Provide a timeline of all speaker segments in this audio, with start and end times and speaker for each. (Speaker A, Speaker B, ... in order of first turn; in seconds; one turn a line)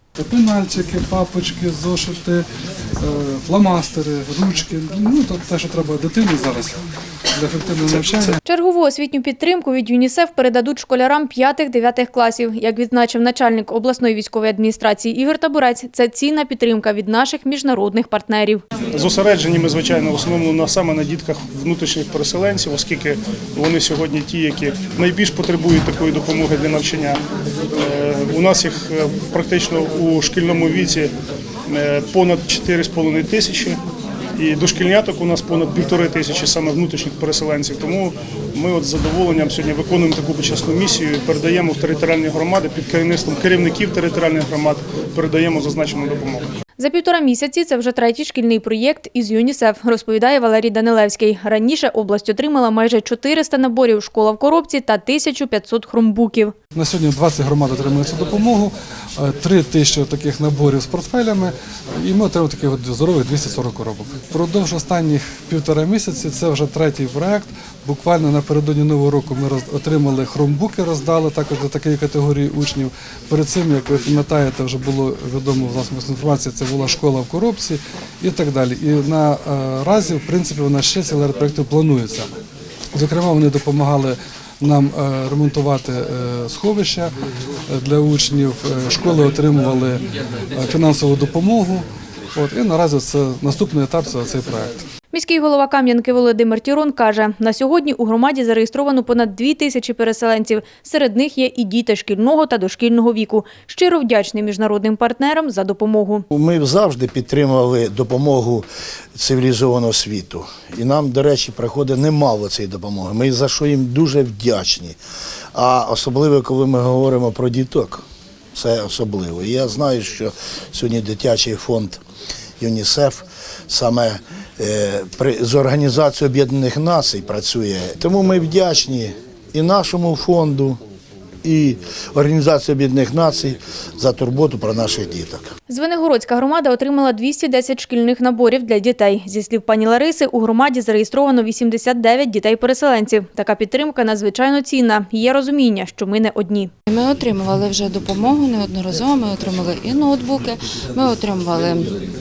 Speaker A: 0.2-2.4
Speaker A: 3.0-6.8
Speaker A: 7.3-8.4
Speaker B: 8.4-18.6
Speaker C: 18.9-27.2
Speaker C: 27.7-31.1
Speaker C: 31.7-33.8
Speaker C: 34.4-46.5
Speaker B: 46.8-56.5
Speaker A: 56.7-82.3
Speaker A: 82.9-87.1
Speaker A: 87.7-90.0
Speaker A: 90.5-94.8
Speaker B: 95.1-106.2
Speaker D: 106.3-115.0
Speaker D: 115.5-118.0
Speaker D: 118.5-122.0
Speaker D: 122.6-130.8
Speaker D: 131.4-135.5
Speaker B: 135.7-146.7
Speaker E: 146.9-151.9